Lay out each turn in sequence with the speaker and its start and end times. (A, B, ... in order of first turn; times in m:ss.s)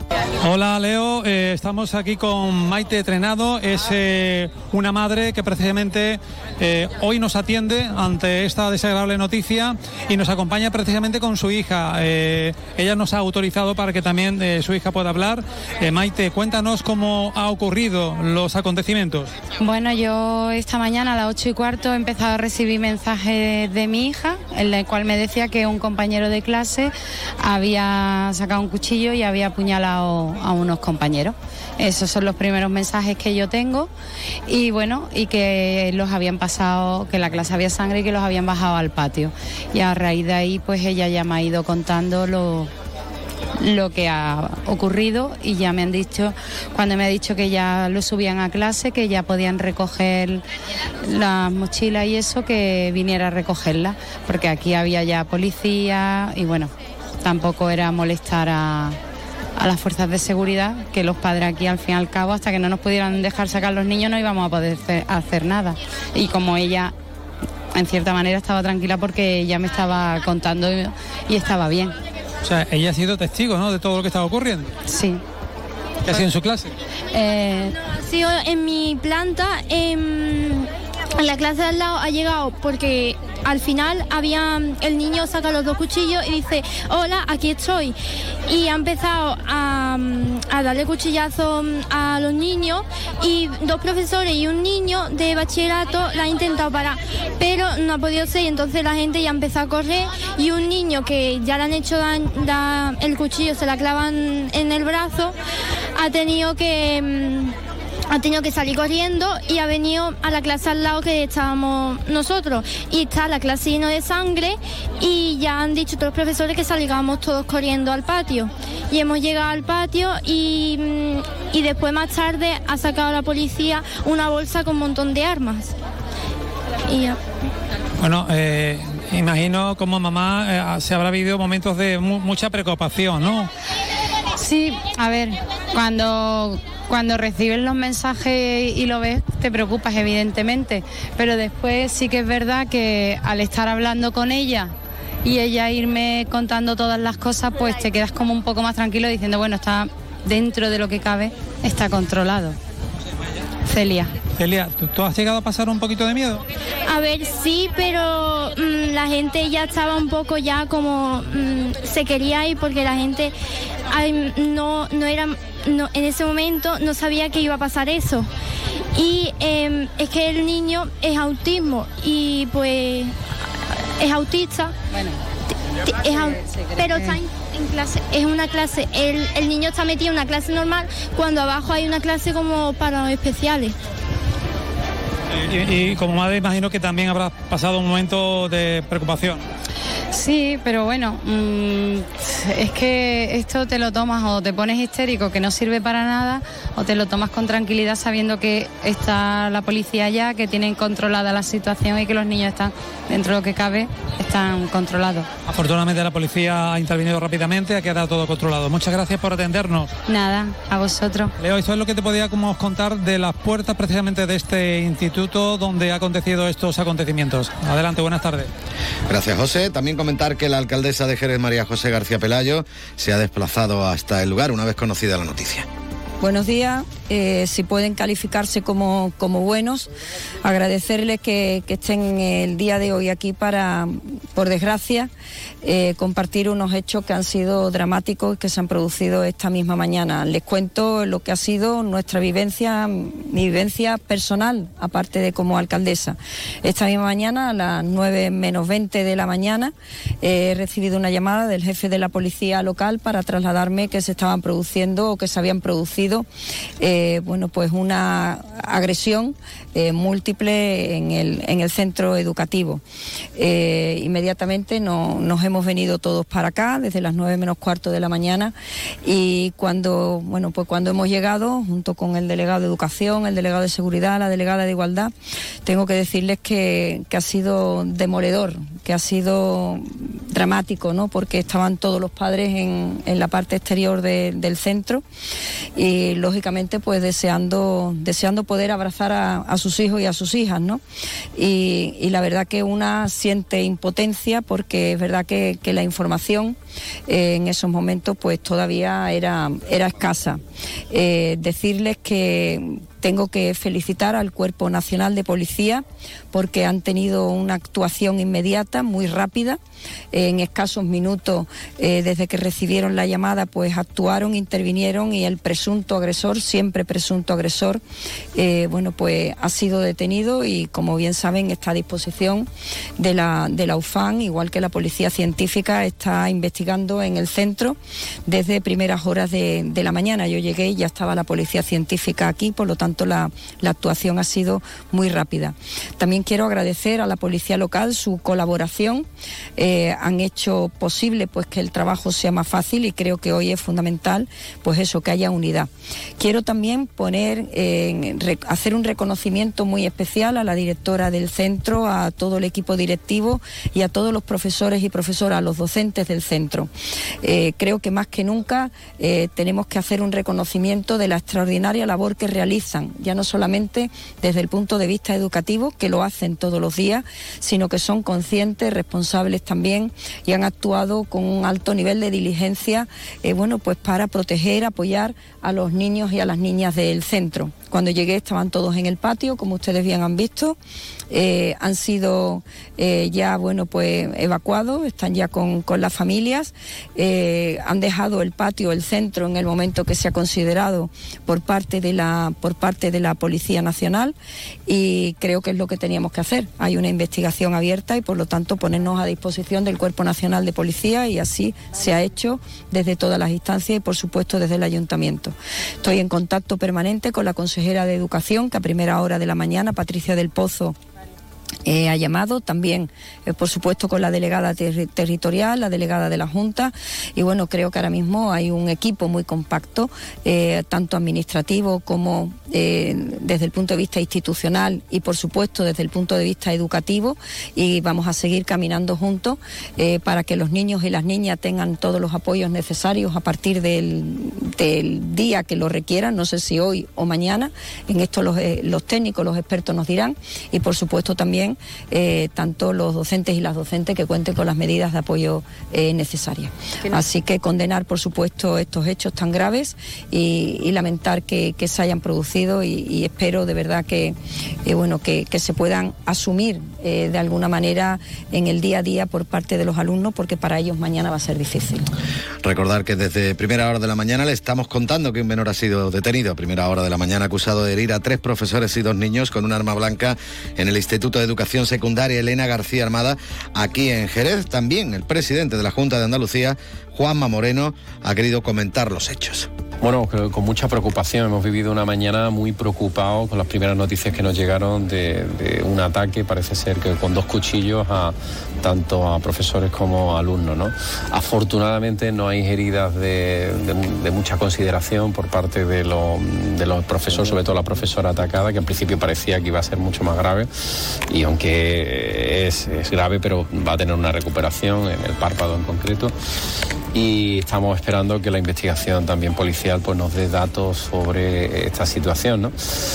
0:00.4-0:19.3 A
0:19.6-0:33.9 B
0:34.5-0:42.7 B
0:43.6-0:50.4 B
0:51.0-0:56.7 B
0:57.2-0:59.0 B
0:59.6-1:06.9 B
1:07.7-1:11.9 B
1:12.4-1:14.7 A
1:14.9-1:15.2 B
1:16.1-1:16.7 A
1:17.1-1:17.7 B
1:17.8-1:27.9 C
1:28.5-1:45.4 C
1:46.0-1:47.6 C
1:48.1-2:05.7 C
2:06.8-2:07.2 C
2:08.0-2:13.5 A
2:14.4-2:24.7 B
2:25.2-2:32.6 B
2:33.7-2:34.1 B
2:34.4-2:36.4 A
2:36.9-2:43.3 C
2:43.9-2:48.3 C
2:49.0-2:53.2 C
2:54.0-2:54.8 C
2:55.9-3:03.8 C
3:05.4-3:09.4 A
3:10.1-3:25.3 B
3:25.5-3:29.9 A
3:30.1-3:31.4 B
3:31.4-3:38.5 A
3:39.1-3:45.7 D
3:46.2-3:49.9 E
3:50.4-3:55.1 E
3:55.6-4:16.3 E
4:16.8-4:22.8 E
4:23.4-4:28.5 E
4:29.0-4:35.1 E
4:35.6-4:45.0 E
4:45.8-4:50.8 E
4:51.4-4:56.6 E
4:57.1-5:00.4 E
5:00.9-5:09.6 E
5:10.1-5:17.8 E
5:18.4-5:22.5 E
5:23.0-5:39.1 E
5:39.6-5:56.7 E
5:57.2-6:20.6 E
6:21.1-6:34.2 E
6:34.7-6:50.8 E
6:51.7-7:41.9 E
7:42.4-7:59.5 D
7:59.8-8:20.5 F
8:21.1-8:26.2 F
8:26.9-8:32.6 F